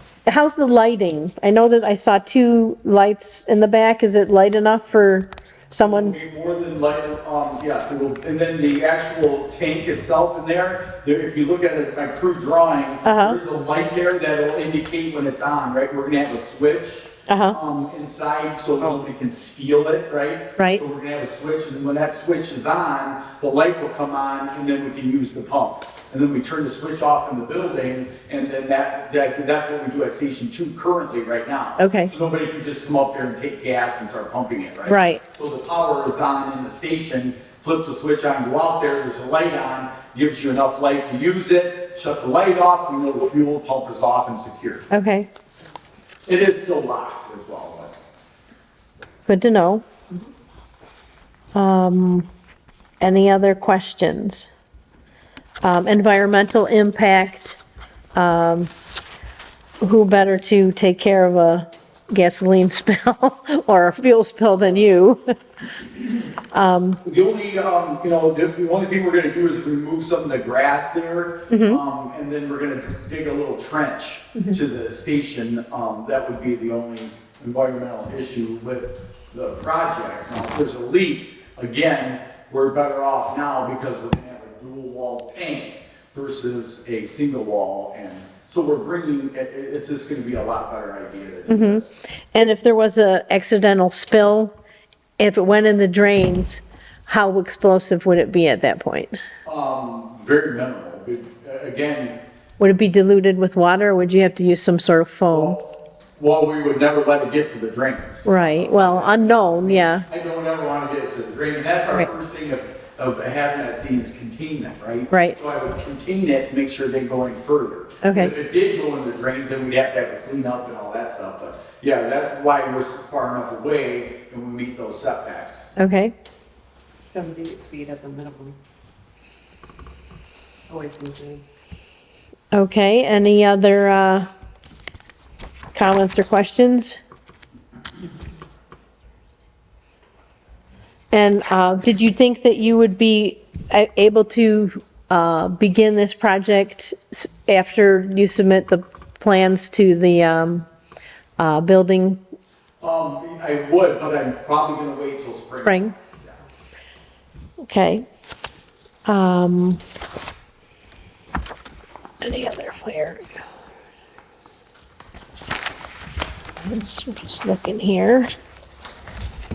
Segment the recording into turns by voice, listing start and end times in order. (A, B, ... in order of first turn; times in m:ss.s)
0:00.2-0:06.2 A
0:05.8-0:44.9 B
0:13.0-0:13.4 A
0:17.3-0:17.6 A
0:20.6-0:20.8 A
0:31.8-0:32.1 A
0:34.9-0:35.2 A
0:44.9-0:45.3 A
0:46.3-0:47.9 B
0:49.3-0:49.8 A
0:51.5-0:52.3 A
0:53.0-0:54.5 A
0:55.6-0:57.6 A
0:58.1-0:58.7 A
0:59.8-1:05.2 A
1:06.5-1:07.0 A
1:07.0-1:31.9 B
1:11.5-1:11.8 A
1:31.5-1:34.5 A
1:35.2-1:39.2 A
1:39.4-1:42.2 B
1:42.6-1:45.6 A
1:45.3-1:45.6 B
1:46.2-2:05.6 B
1:48.2-1:50.1 A
1:55.1-1:55.4 A
1:58.0-1:58.3 A
2:05.8-2:06.1 A
2:07.0-2:08.6 C
2:10.7-2:11.5 C
2:12.5-2:14.3 A
2:15.7-2:17.0 A
2:21.1-2:30.7 A
2:31.4-2:32.2 A
2:32.8-2:36.3 B
2:35.6-2:35.9 A
2:37.6-2:38.0 A
2:39.0-2:39.8 A
2:42.2-2:43.3 A
2:46.6-2:48.3 A